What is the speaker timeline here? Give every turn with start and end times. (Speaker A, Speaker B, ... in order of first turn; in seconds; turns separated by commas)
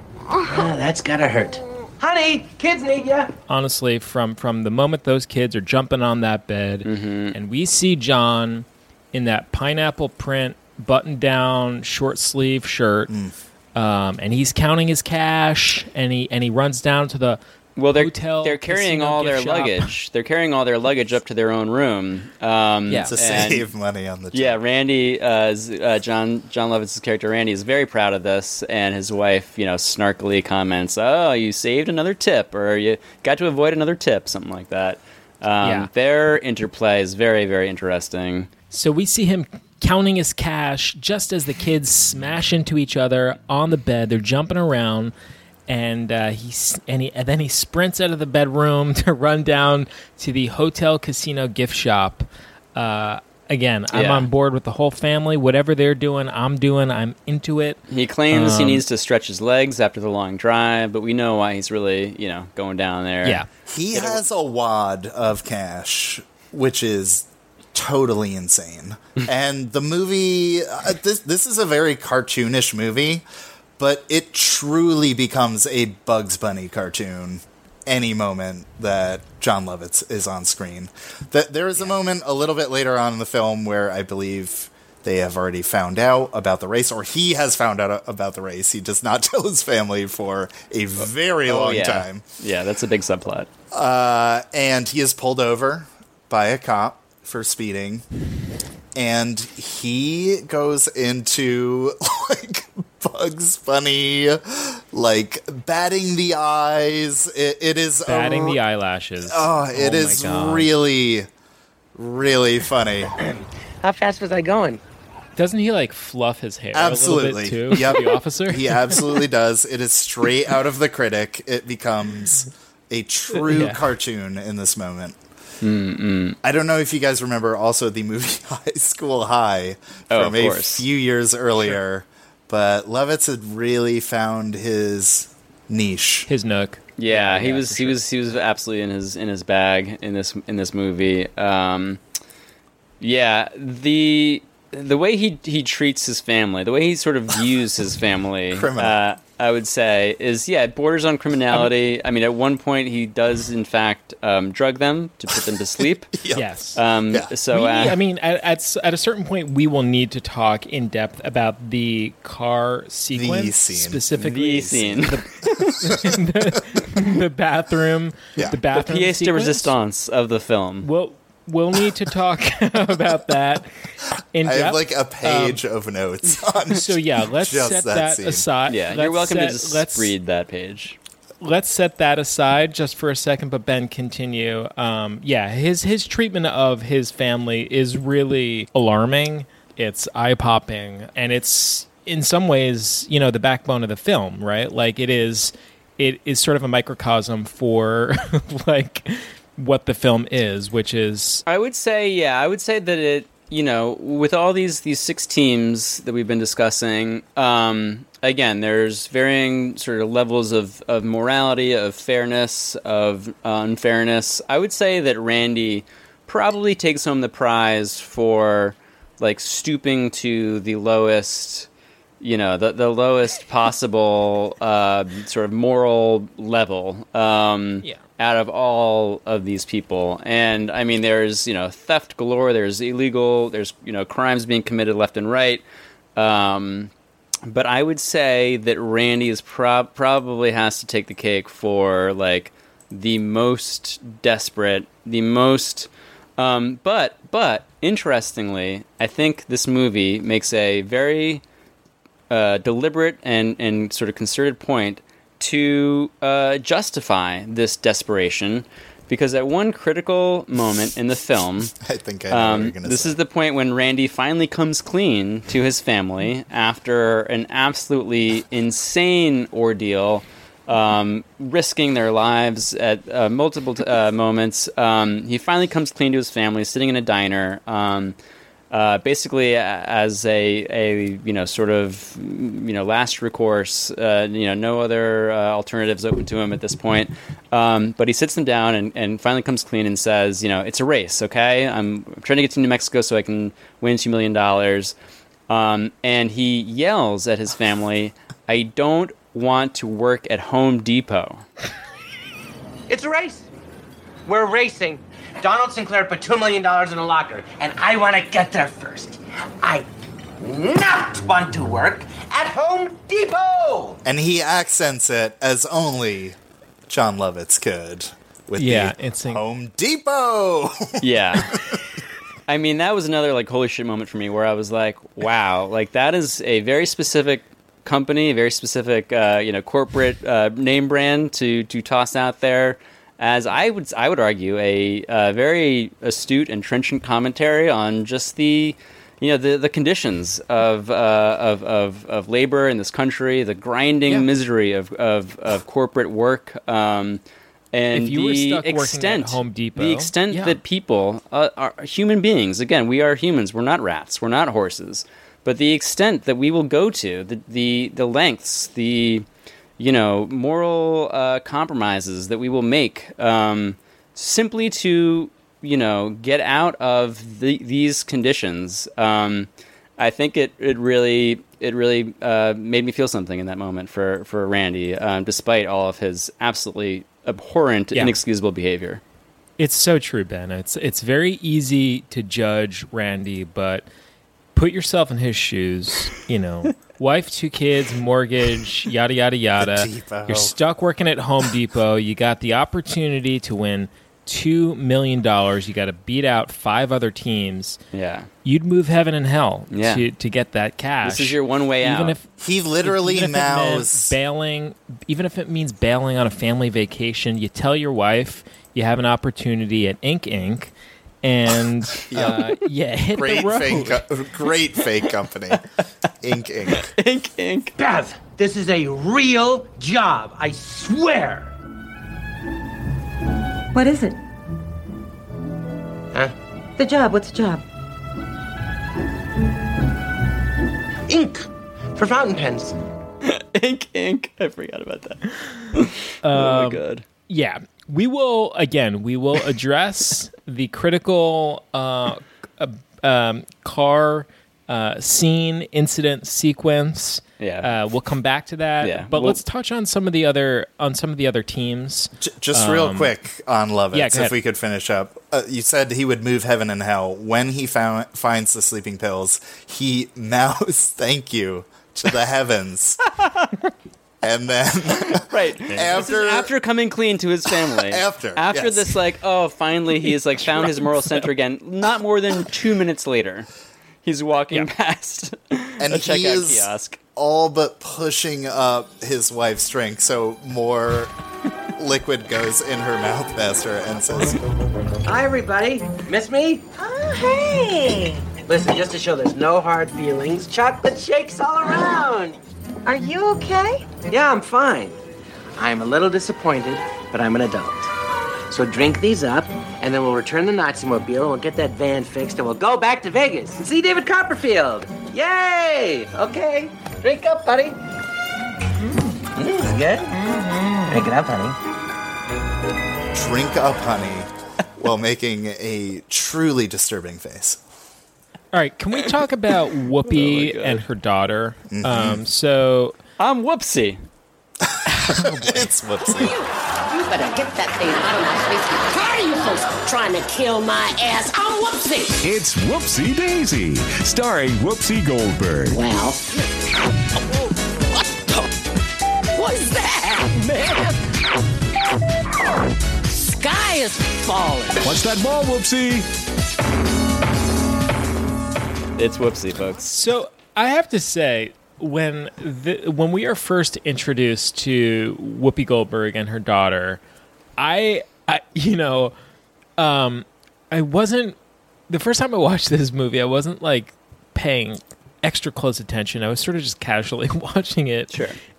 Speaker A: 0.4-3.3, Speaker B: 3.5-13.1, Speaker C: 6.8-7.4, Speaker D: 13.1-13.3, Speaker B: 13.8-17.4, Speaker C: 17.8-23.7, Speaker B: 17.9-19.9, Speaker D: 23.1-24.6, Speaker C: 24.3-38.5, Speaker B: 35.6-35.9, Speaker B: 38.7-45.1, Speaker B: 45.7-57.8, Speaker C: 53.9-54.3, Speaker C: 57.9-64.2, Speaker B: 58.3-58.8, Speaker D: 63.7-73.2, Speaker D: 73.8-92.2, Speaker C: 91.5-93.5, Speaker D: 93.7-98.0, Speaker D: 99.0-108.6, Speaker B: 108.0-110.7, Speaker D: 109.3-111.3, Speaker D: 112.0-113.2, Speaker A: 113.8-114.8, Speaker B: 115.4-119.0, Speaker D: 116.7-125.2, Speaker B: 123.3-123.8, Speaker C: 125.6-126.4, Speaker D: 126.4-136.3, Speaker C: 130.1-130.8, Speaker B: 136.3-138.0, Speaker C: 137.0-142.0, Speaker C: 143.0-156.1, Speaker D: 148.5-149.0, Speaker D: 156.1-156.4, Speaker B: 156.3-156.8, Speaker C: 156.8-158.0, Speaker B: 157.5-169.7, Speaker D: 163.1-164.1, Speaker C: 164.2-165.2, Speaker C: 168.7-170.9, Speaker B: 170.8-173.7, Speaker B: 174.3-175.6, Speaker D: 174.4-178.4, Speaker B: 176.7-180.1, Speaker C: 178.7-181.0, Speaker B: 181.4-201.4, Speaker C: 201.5-221.7, Speaker C: 222.2-235.6, Speaker C: 236.2-236.9, Speaker C: 237.5-251.4, Speaker C: 252.3-261.7, Speaker D: 261.8-263.2, Speaker C: 262.3-278.2, Speaker C: 278.7-294.9, Speaker C: 295.5-301.4, Speaker A: 302.9-303.5, Speaker A: 304.3-309.9, Speaker A: 310.4-314.0, Speaker D: 314.1-316.4, Speaker D: 316.9-321.4, Speaker B: 318.6-319.4, Speaker C: 321.0-321.5, Speaker C: 322.5-347.2, Speaker C: 347.7-359.2, Speaker B: 347.9-350.6, Speaker C: 359.8-379.0, Speaker B: 379.6-383.9, Speaker B: 384.6-397.8, Speaker D: 389.6-390.6, Speaker C: 397.9-398.3, Speaker B: 398.4-402.3, Speaker C: 399.7-400.0, Speaker C: 401.0-402.2, Speaker D: 402.4-404.1, Speaker B: 402.8-410.7, Speaker B: 411.2-414.0, Speaker D: 412.1-412.4, Speaker D: 413.2-415.6, Speaker D: 416.2-416.9, Speaker C: 416.7-417.7, Speaker A: 417.8-421.5, Speaker E: 423.7-424.2, Speaker E: 426.8-427.6, Speaker A: 431.1-432.8, Speaker C: 433.2-435.2, Speaker C: 435.8-437.0, Speaker B: 436.2-453.1, Speaker C: 447.4-447.7, Speaker C: 448.8-449.4, Speaker D: 452.2-463.0, Speaker B: 453.9-454.3, Speaker D: 464.2-466.5, Speaker C: 465.1-473.5, Speaker B: 465.7-466.1, Speaker D: 467.7-468.9, Speaker C: 474.0-477.0, Speaker D: 475.8-481.1, Speaker D: 481.8-484.4, Speaker A: 485.1-486.6, Speaker E: 486.8-488.0, Speaker A: 488.4-492.4, Speaker E: 492.9-493.9, Speaker A: 494.1-495.0, Speaker A: 495.6-497.9, Speaker A: 498.5-507.8, Speaker A: 509.4-510.1, Speaker A: 510.9-511.6, Speaker D: 513.1-517.6, Speaker B: 518.5-523.0, Speaker C: 520.0-520.8, Speaker D: 521.7-522.2, Speaker C: 523.2-524.0, Speaker D: 525.1-526.4, Speaker B: 525.1-525.6, Speaker F: 526.9-532.2, Speaker G: 532.2-535.8, Speaker F: 535.7-536.2, Speaker F: 539.4-540.9, Speaker F: 543.1-544.9, Speaker G: 544.8-546.1, Speaker C: 549.0-550.0, Speaker B: 549.9-557.0, Speaker B: 557.6-559.1, Speaker B: 559.8-561.4, Speaker B: 561.9-568.2, Speaker C: 568.1-568.4